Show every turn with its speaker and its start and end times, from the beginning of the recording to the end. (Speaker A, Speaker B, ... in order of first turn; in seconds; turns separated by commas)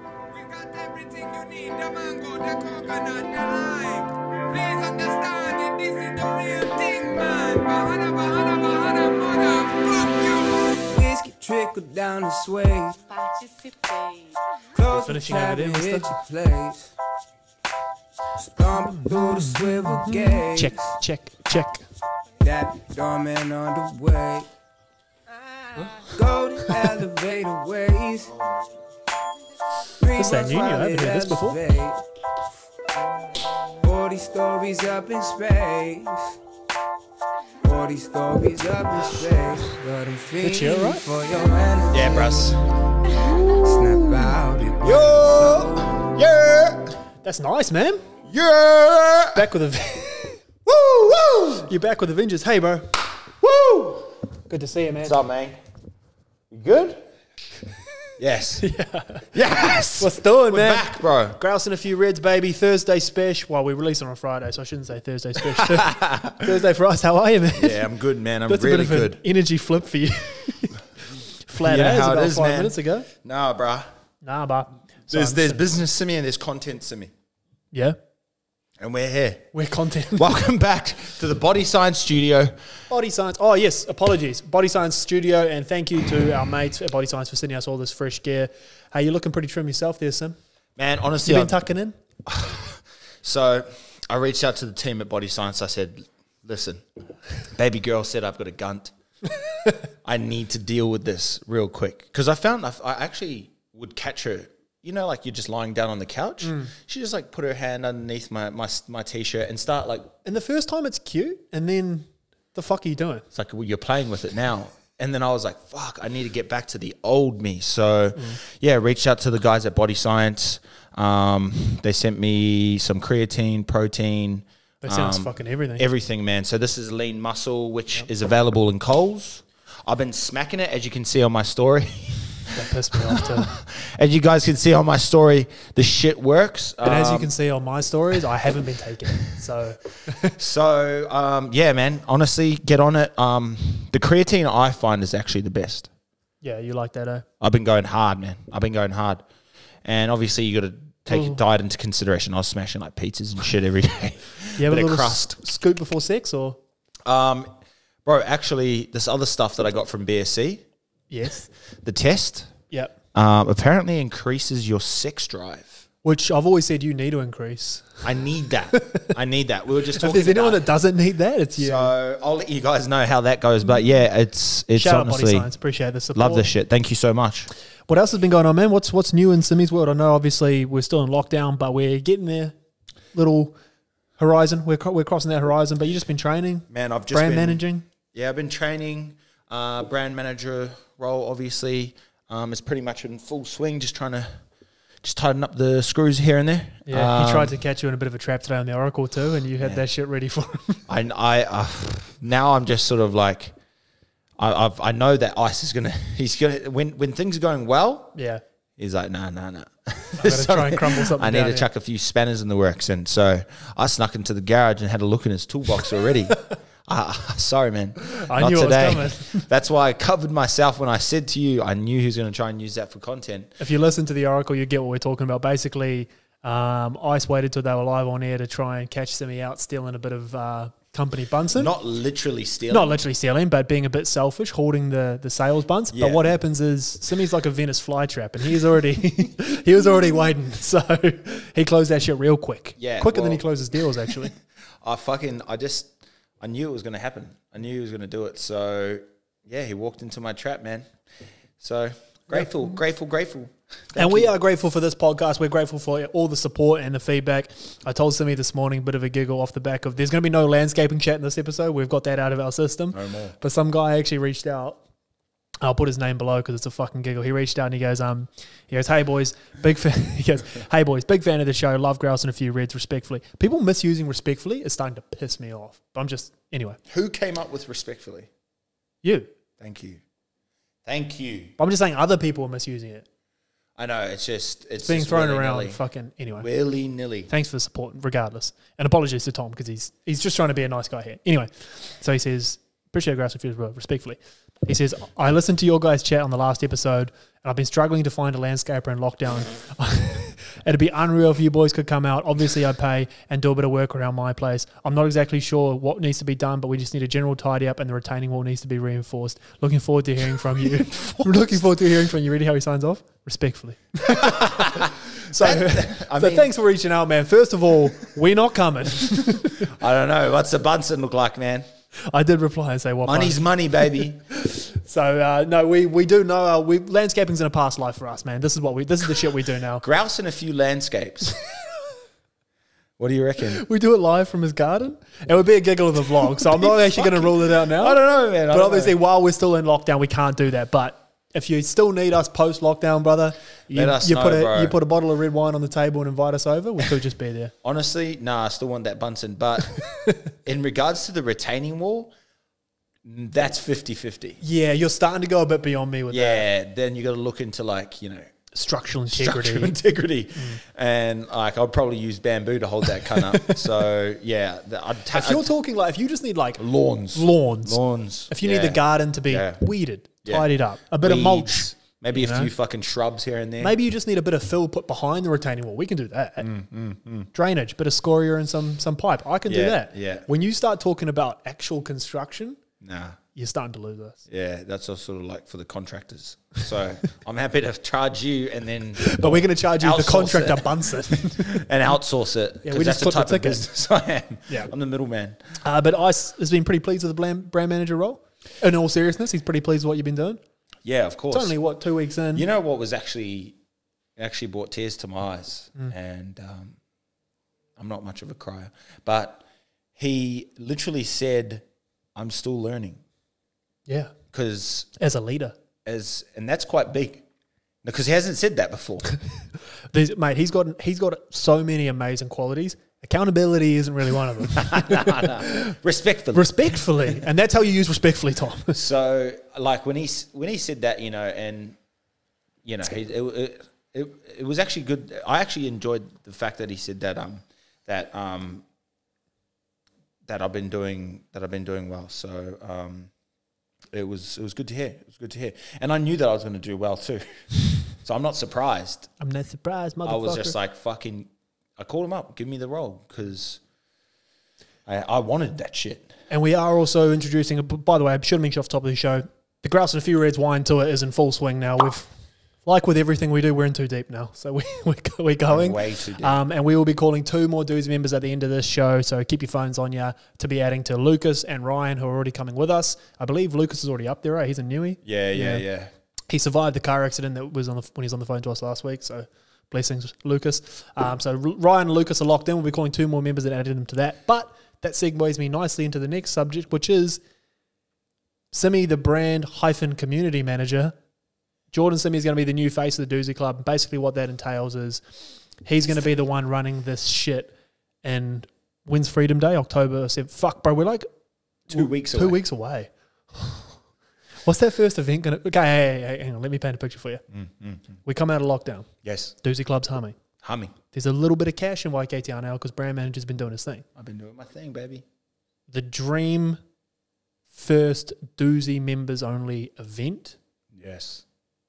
Speaker A: 0.3-13.1, Speaker A: 14.7-16.9, Speaker B: 14.9-16.2, Speaker A: 18.4-20.9, Speaker B: 18.9-21.9, Speaker A: 22.4-24.5, Speaker A: 25.4-28.5, Speaker B: 25.8-26.1, Speaker A: 30.0-32.0, Speaker B: 30.1-31.6, Speaker A: 33.8-36.3, Speaker A: 37.6-42.5, Speaker B: 40.4-41.0, Speaker C: 41.9-42.6, Speaker A: 43.3-45.9, Speaker C: 44.8-46.9, Speaker B: 47.2-48.0, Speaker C: 48.2-49.5, Speaker B: 49.3-50.4, Speaker C: 50.6-51.6, Speaker B: 51.6-52.9, Speaker C: 53.4-54.2, Speaker B: 54.5-55.2, Speaker C: 55.0-55.6, Speaker C: 56.5-57.0, Speaker C: 58.2-58.7, Speaker B: 58.6-59.3, Speaker C: 59.3-61.4, Speaker B: 60.0-67.9, Speaker C: 65.4-66.5, Speaker C: 67.5-69.2, Speaker B: 68.5-73.1, Speaker C: 71.6-73.9, Speaker B: 74.2-75.6, Speaker C: 75.1-77.1, Speaker B: 77.7-78.0, Speaker C: 78.8-79.5, Speaker B: 79.5-80.3, Speaker C: 80.1-82.6, Speaker B: 82.9-90.4, Speaker C: 90.8-91.6, Speaker B: 91.2-92.0, Speaker C: 92.2-96.8, Speaker C: 97.4-98.9, Speaker C: 100.0-110.1, Speaker B: 106.4-106.7, Speaker B: 110.2-113.2, Speaker C: 113.3-137.3, Speaker B: 124.8-125.8, Speaker B: 132.5-133.5, Speaker B: 136.8-140.3, Speaker C: 140.3-145.9, Speaker B: 146.4-147.2, Speaker C: 147.4-149.2, Speaker C: 149.8-155.4, Speaker B: 151.1-151.4, Speaker B: 154.6-156.6, Speaker C: 157.0-157.5, Speaker C: 158.0-160.6, Speaker B: 161.1-161.5, Speaker C: 161.8-162.6, Speaker C: 163.1-165.8, Speaker B: 166.0-168.1, Speaker C: 168.0-170.6, Speaker B: 168.7-169.1, Speaker B: 169.9-171.9, Speaker C: 171.6-175.5, Speaker B: 174.7-176.5, Speaker C: 176.1-177.5, Speaker B: 177.9-182.5, Speaker B: 183.1-183.6, Speaker B: 184.2-187.8, Speaker C: 186.7-187.6, Speaker C: 188.1-194.4, Speaker C: 195.0-197.5, Speaker B: 196.9-200.8, Speaker C: 200.9-203.5, Speaker C: 204.4-208.2, Speaker B: 208.1-208.4, Speaker C: 208.8-223.6, Speaker B: 210.2-211.7, Speaker B: 218.2-219.4, Speaker B: 223.6-231.7, Speaker C: 231.5-233.0, Speaker B: 232.7-244.3, Speaker C: 235.9-236.3, Speaker C: 242.8-250.9, Speaker C: 251.6-254.3, Speaker B: 253.9-264.8, Speaker C: 262.9-263.4, Speaker B: 265.6-276.8, Speaker C: 276.9-278.3, Speaker B: 279.0-279.3, Speaker C: 279.6-280.0, Speaker C: 280.9-281.5, Speaker B: 281.6-283.1, Speaker C: 283.8-285.8, Speaker B: 284.8-286.5, Speaker C: 286.4-287.3, Speaker B: 287.3-319.7, Speaker C: 310.6-311.6, Speaker C: 314.0-316.5, Speaker C: 319.6-321.6, Speaker B: 322.1-323.4, Speaker C: 323.0-324.2, Speaker B: 324.3-329.8, Speaker C: 329.8-331.3, Speaker C: 333.0-333.6, Speaker B: 333.5-347.5, Speaker C: 336.3-339.0, Speaker C: 343.7-344.8, Speaker C: 347.6-349.8, Speaker C: 350.4-352.1, Speaker C: 353.0-354.4, Speaker B: 354.4-356.4, Speaker C: 356.1-358.3, Speaker B: 358.5-359.8, Speaker C: 359.1-365.5, Speaker B: 360.4-360.6, Speaker B: 363.1-363.6, Speaker B: 365.1-372.5, Speaker C: 366.6-369.6, Speaker C: 370.2-373.8, Speaker B: 373.6-376.5, Speaker C: 376.4-377.3, Speaker B: 377.3-382.6, Speaker C: 379.4-380.3, Speaker C: 382.8-383.2, Speaker B: 383.3-384.2, Speaker C: 384.3-395.4, Speaker B: 389.0-391.6, Speaker B: 392.6-393.7, Speaker B: 395.6-400.4, Speaker C: 400.8-401.6, Speaker B: 401.3-402.4, Speaker C: 402.3-403.6, Speaker C: 404.1-406.8, Speaker C: 407.8-409.4, Speaker C: 410.0-413.0, Speaker B: 413.9-414.1, Speaker C: 414.3-414.9, Speaker B: 415.0-415.6, Speaker C: 415.8-417.2, Speaker C: 417.8-419.1, Speaker B: 419.9-425.7, Speaker C: 424.5-427.1, Speaker B: 426.3-428.8, Speaker C: 428.7-431.8, Speaker C: 432.6-438.6, Speaker C: 440.2-443.1, Speaker C: 443.9-449.1, Speaker B: 449.2-450.6, Speaker C: 450.0-453.6, Speaker C: 454.9-456.1, Speaker B: 456.3-462.1, Speaker B: 462.6-475.6, Speaker C: 465.5-466.4, Speaker C: 475.0-475.9, Speaker B: 476.3-487.2, Speaker B: 488.5-490.9, Speaker B: 491.7-495.0, Speaker B: 495.6-501.1, Speaker C: 501.7-502.4, Speaker B: 501.7-503.7, Speaker B: 504.4-507.2, Speaker C: 507.3-508.0, Speaker B: 508.0-508.9, Speaker C: 509.0-509.3, Speaker B: 509.4-510.1, Speaker C: 510.4-510.7, Speaker B: 510.9-513.8, Speaker C: 514.0-515.0, Speaker B: 515.7-516.6, Speaker B: 517.5-520.4, Speaker C: 520.7-521.2